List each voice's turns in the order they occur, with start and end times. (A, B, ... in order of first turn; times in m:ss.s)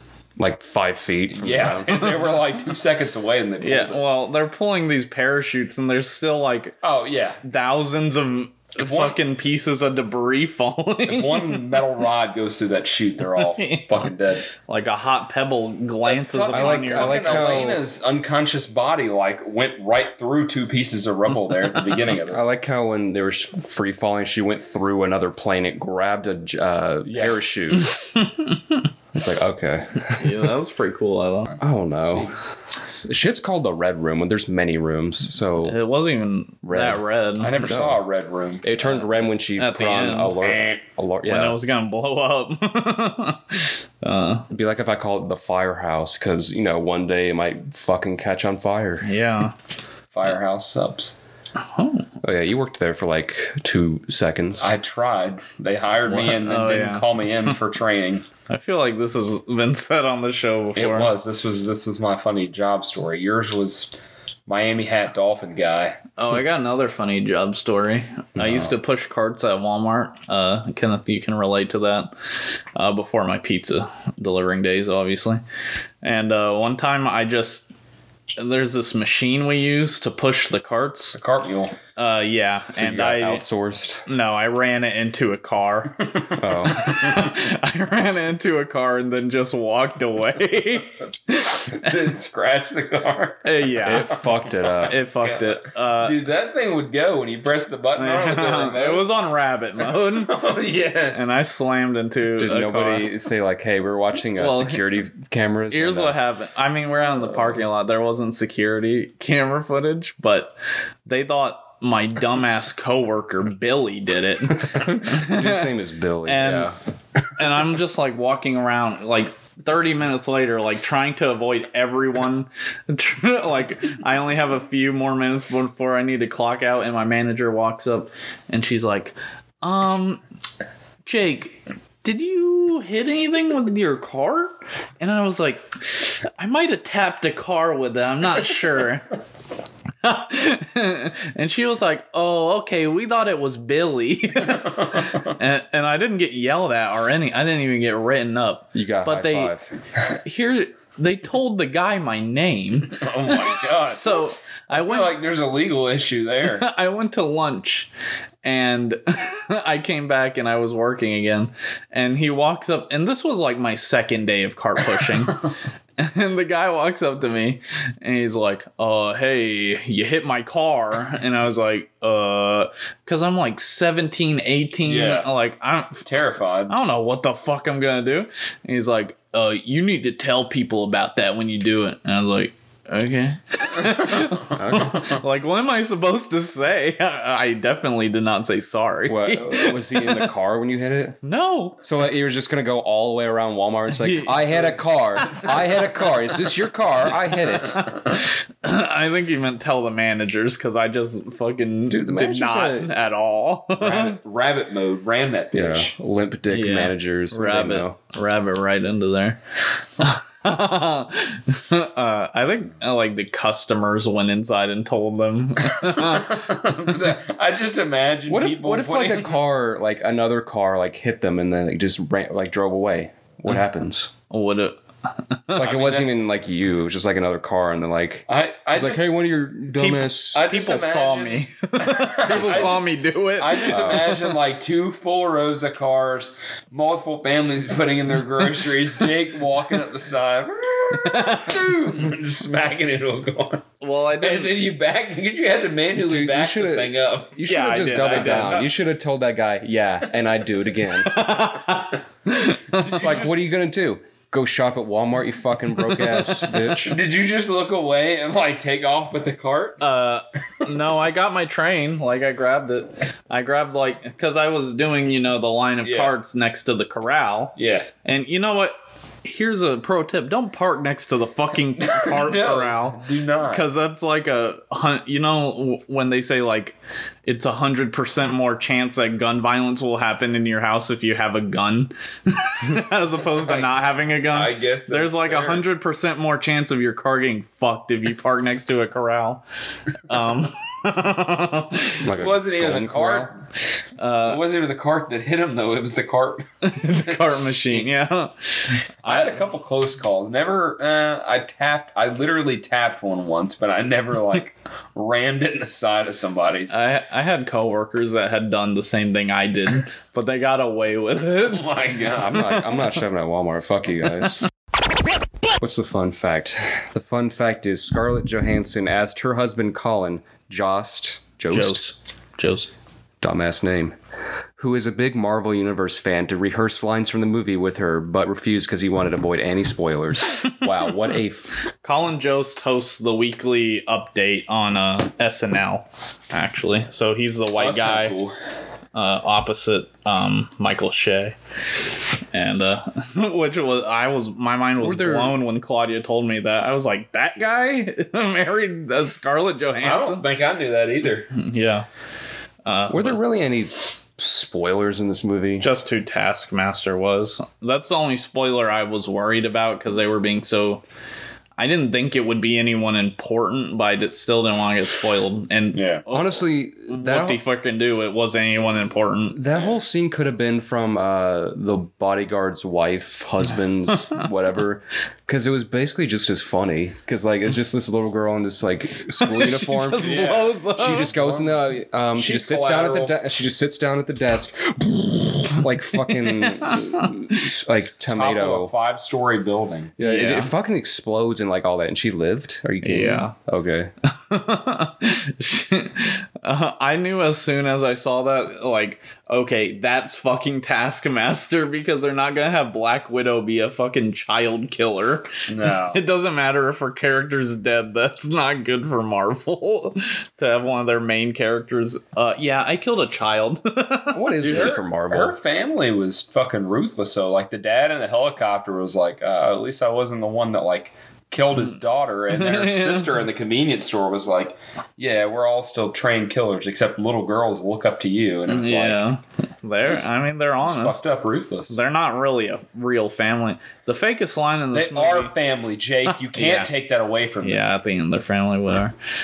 0:00.4-0:02.1 A
0:01.3-0:04.0 B
0:03.6-0:06.8 C
0:06.8-0:07.4 B
0:07.4-0:11.8 C
0:08.8-0:09.2 B
0:11.1-0:14.4 B
0:13.3-0:17.8 C
0:16.0-0:22.4 B
0:16.5-0:17.8 A
0:22.3-0:27.9 A
0:27.0-0:27.4 B
0:28.0-0:28.5 C
0:29.1-0:30.5 A
0:30.1-0:31.5 C
0:31.6-0:32.4 B
0:31.6-0:32.3 A
0:33.0-0:35.8 A
0:35.6-0:37.7 C
0:36.6-0:37.0 A
0:37.4-0:38.7 B
0:37.6-0:38.0 A
0:38.6-0:41.6 A
0:39.5-0:40.5 C
0:40.4-0:40.8 B
0:41.2-0:44.5 C
0:44.5-0:49.2 A
0:49.0-0:49.5 C
0:50.1-0:51.1 B
0:51.6-0:52.1 C
0:52.2-0:54.7 A
0:54.6-0:58.2 B
0:56.1-0:57.1 C
0:58.5-1:01.1 C
1:00.8-1:04.0 B
1:04.5-1:06.0 B
1:06.2-1:12.1 C
1:08.4-1:08.7 A
1:12.8-1:15.4 C
1:16.0-1:17.7 C
1:18.4-1:21.2 C
1:21.1-1:21.8 B
1:22.0-1:23.4 C
1:22.7-1:24.0 A
1:24.0-1:31.9 C
1:26.4-1:26.9 A
1:31.7-1:39.1 B
1:33.4-1:34.2 C
1:33.8-1:35.0 A
1:34.8-1:36.2 C
1:38.0-1:40.4 C
1:39.9-1:41.4 B
1:41.1-1:43.1 C
1:42.4-1:46.2 A
1:44.4-1:44.8 C
1:45.7-1:50.5 C
1:51.0-1:55.7 C
1:54.7-1:56.7 A
1:56.2-1:56.7 C
1:57.4-2:10.2 C
2:11.0-2:19.1 C
2:20.0-2:29.5 C
2:24.4-2:25.3 B
2:28.7-2:29.7 A
2:30.2-2:35.1 C
2:32.9-2:36.7 B
2:36.5-2:37.9 C
2:38.4-2:45.4 C
2:46.0-2:56.0 C
2:54.8-2:55.3 B
2:56.0-2:56.8 B
2:56.7-3:10.2 C
3:04.5-3:05.0 A
3:09.1-3:11.2 A
3:11.2-3:11.8 C
3:11.8-3:17.8 A
3:13.9-3:15.7 C
3:17.7-3:24.2 C
3:21.9-3:22.9 A
3:23.8-3:25.9 B
3:25.5-3:28.0 A
3:26.5-3:29.4 C
3:30.0-3:36.6 C
3:35.7-3:39.4 B
3:38.3-3:44.1 A
3:44.3-3:45.7 C
3:45.5-3:50.4 A
3:45.6-3:46.1 B
3:48.3-3:49.1 B
3:49.7-3:54.3 C
3:50.3-3:52.8 B
3:52.3-3:52.8 A
3:53.4-4:07.4 B
3:53.7-3:54.2 A
4:00.9-4:01.7 C
4:03.8-4:04.6 C
4:06.0-4:11.1 A
4:07.4-4:08.6 C
4:07.9-4:08.7 B
4:11.0-4:13.0 C
4:12.7-4:13.4 B
4:13.0-4:17.0 A
4:15.9-4:16.5 C
4:16.8-4:19.8 B
4:19.8-4:49.4 C
4:25.8-4:26.1 B
4:27.6-4:27.9 B
4:31.8-4:33.6 B
4:43.4-4:43.7 B
4:44.3-4:45.6 B
4:50.1-4:52.0 C
4:52.0-4:53.2 A
4:52.2-4:53.3 B
4:54.0-4:54.4 C
4:54.2-4:57.2 B
4:56.6-4:59.4 C
4:59.0-5:06.7 B
5:06.7-5:11.8 C
5:11.4-5:12.5 B
5:12.2-5:14.4 A
5:15.6-5:21.8 A
5:21.5-5:22.7 C
5:23.2-5:24.0 A
5:24.6-5:31.5 A
5:31.8-5:38.2 C
5:37.6-5:38.3 B
5:38.9-5:41.4 C
5:42.3-5:50.2 C
5:44.8-5:45.4 A
5:49.8-5:51.3 B
5:51.3-5:51.9 C
5:52.6-5:53.2 C
5:52.9-5:55.7 A
5:55.6-6:00.8 C
6:01.6-6:09.4 C
6:05.7-6:06.0 B
6:06.1-6:07.4 A
6:09.3-6:28.7 A
6:19.2-6:21.2 C
6:20.0-6:21.6 B
6:22.1-6:23.2 B
6:26.0-6:27.4 C
6:28.1-6:30.0 B
6:30.0-6:33.9 A
6:30.0-6:30.5 C
6:32.8-6:33.3 C
6:34.1-6:45.3 C
6:45.5-6:46.0 B
6:45.9-6:54.8 C
6:54.1-6:55.4 A
6:54.4-7:09.0 B
7:02.3-7:03.2 C
7:08.5-7:11.0 C
7:10.6-7:11.8 B
7:11.7-7:15.3 C
7:14.7-7:17.6 B
7:16.3-7:16.7 C
7:17.4-7:18.9 C